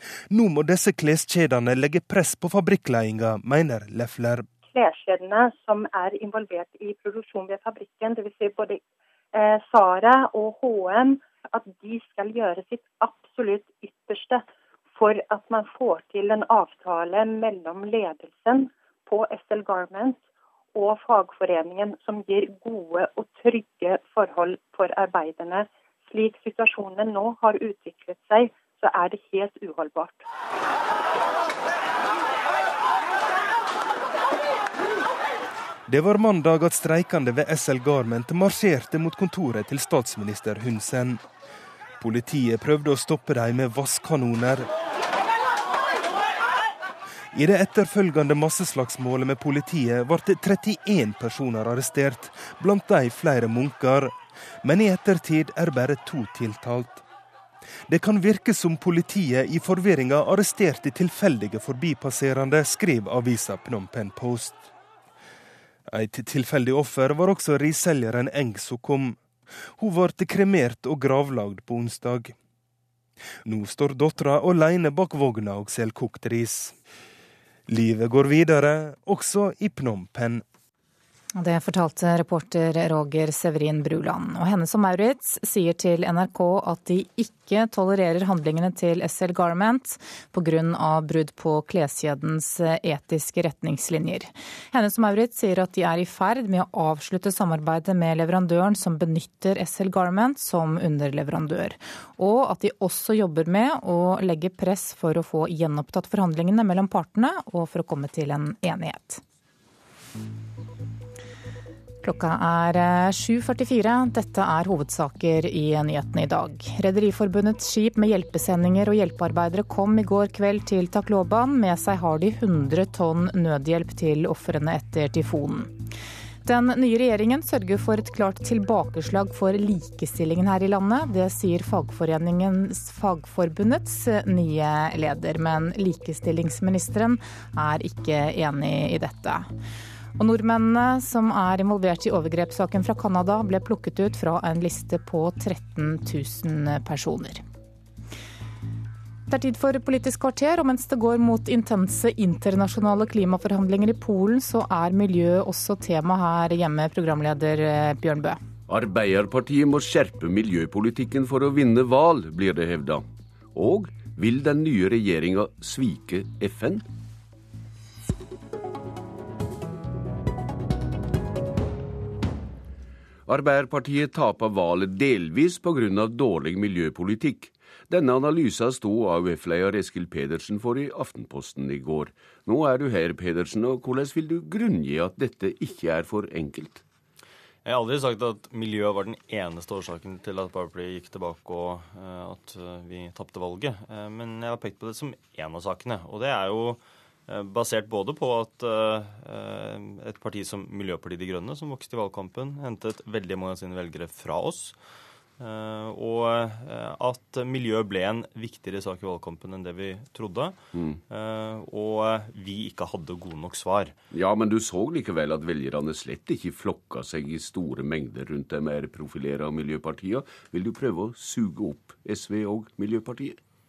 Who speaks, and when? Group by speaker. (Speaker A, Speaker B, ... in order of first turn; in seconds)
Speaker A: 0.3-4.5, 35.9-41.2, 42.0-44.7, 47.3-57.0, 57.9-64.7, 65.9-69.2, 69.7-72.3, 73.5-76.8, 77.7-80.4
Speaker B: 4.7-8.8, 9.3-14.4, 15.0-20.2, 20.8-30.2
Speaker C: 81.3-109.2, 112.0-125.8, 126.5-139.5, 140.2-147.4, 149.3-158.4
Speaker D: 158.7-166.8, 173.3-186.8, 210.7-211.0, 214.1-223.4
Speaker E: 187.7-204.8, 205.4-210.6, 211.1-213.9